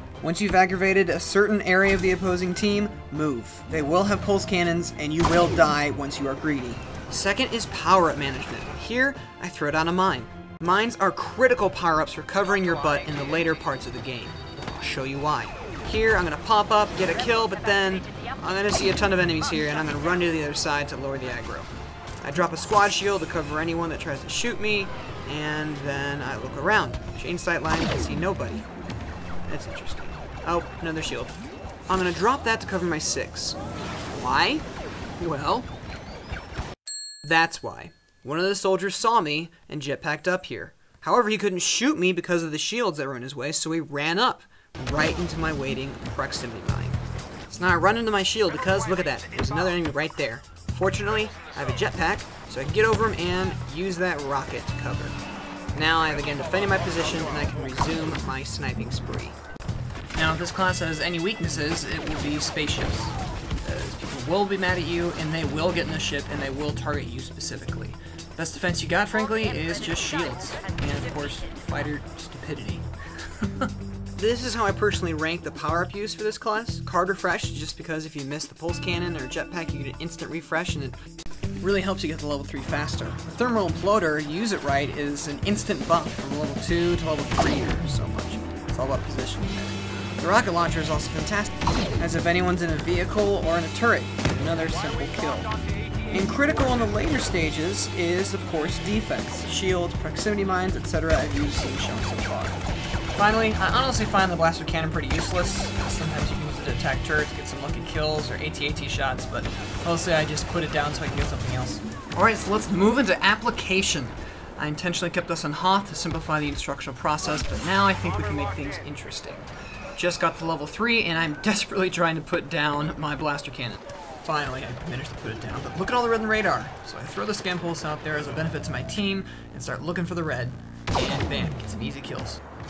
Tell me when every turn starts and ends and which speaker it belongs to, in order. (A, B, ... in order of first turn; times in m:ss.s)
0:00.2-0:21.7 A
0:22.2-0:28.7 A
0:29.4-0:33.6 A
0:34.1-0:34.7 A
0:35.2-0:35.7 A
0:37.2-0:55.2 A
0:55.7-0:59.4 A
1:00.1-1:21.0 A
1:21.6-1:35.5 A
1:36.1-1:42.6 A
1:43.1-2:12.4 A